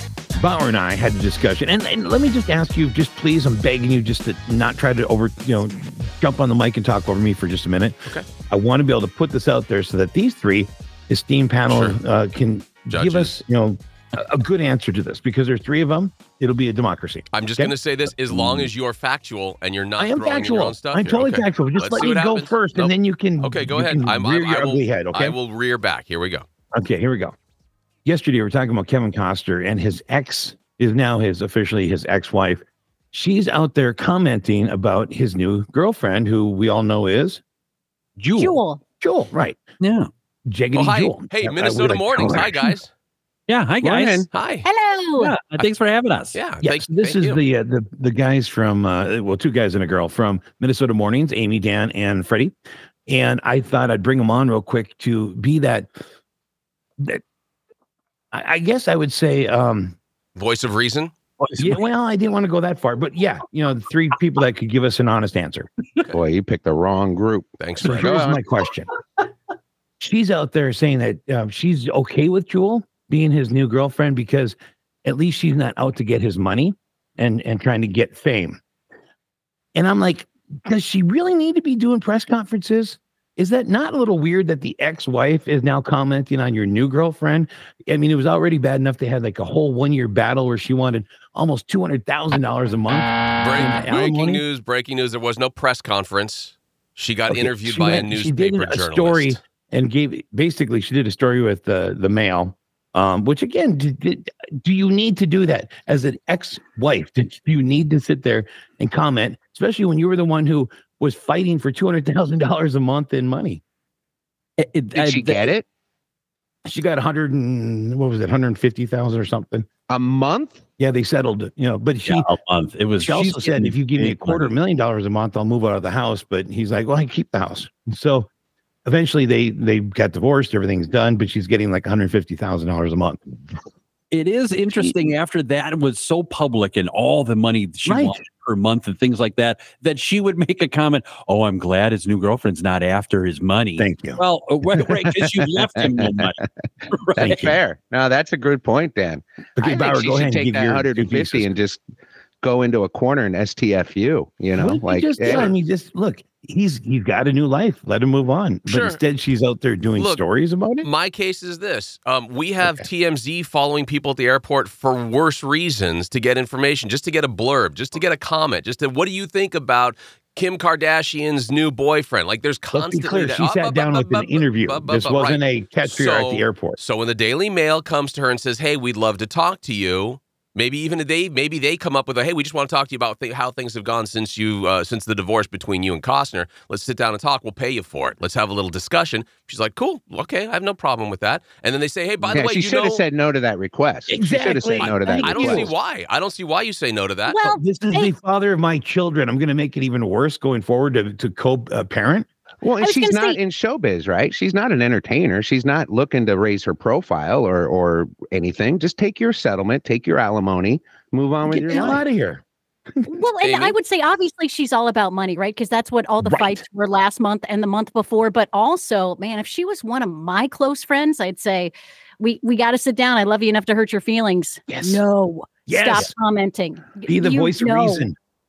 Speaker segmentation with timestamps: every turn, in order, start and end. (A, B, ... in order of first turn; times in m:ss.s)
0:00.4-0:08.0 A
0:08.5-0:17.8 A
0:11.7-0:12.0 B
0:12.9-0:13.4 B
0:17.3-0:26.5 B
0:18.3-0:18.7 A
0:20.0-0:25.4 A
0:26.7-0:27.4 A
0:28.0-0:37.4 A
0:38.2-0:38.6 C
0:38.4-0:38.8 D
0:39.0-0:39.6 A
0:39.8-0:40.1 C
0:40.5-0:42.8 A
0:40.7-0:42.9 B
0:43.5-0:44.3 C
0:43.8-0:44.3 E
0:44.3-0:44.7 B
0:44.6-0:45.4 D
0:45.2-0:46.4 C
0:46.3-0:47.4 B
0:46.6-0:52.6 A
0:53.1-0:55.9 A
0:58.3-1:00.0 A
1:00.4-1:01.1 B
1:01.6-1:05.7 A
1:06.1-1:08.4 E
1:07.6-1:08.4 B
1:07.8-1:08.9 A
1:10.0-1:18.6 A
1:19.8-1:34.4 A
1:33.4-1:39.4 B
1:37.3-1:53.6 A
1:54.6-1:55.5 C
1:54.9-1:55.6 E
1:56.7-1:59.7 A
1:59.9-2:00.6 E
2:00.8-2:02.3 A
2:02.1-2:04.5 C
2:03.0-2:08.3 A
2:08.9-2:13.2 A
2:14.1-2:26.4 C
2:17.8-2:18.2 A
2:23.8-2:24.2 A
2:25.0-2:26.5 E
2:26.9-2:27.5 C
2:27.2-2:27.6 A
2:27.2-2:31.8 E
2:29.6-2:31.5 A
2:32.4-2:35.5 E
2:34.6-2:40.9 A
2:38.7-2:39.0 B
2:40.0-2:40.2 B
2:40.8-3:13.0 B
2:52.7-2:56.8 A
3:12.3-3:15.7 E
3:14.1-3:15.7 A
3:14.8-3:17.4 B
3:17.3-3:18.1 D
3:17.4-3:22.3 A
3:22.6-3:32.0 E
3:22.8-3:23.4 D
3:31.4-3:32.4 A
3:33.1-3:48.1 D
3:33.4-3:33.8 B
3:36.2-3:36.6 A
3:44.7-3:45.0 A
3:45.7-3:46.1 A
3:47.1-3:48.2 A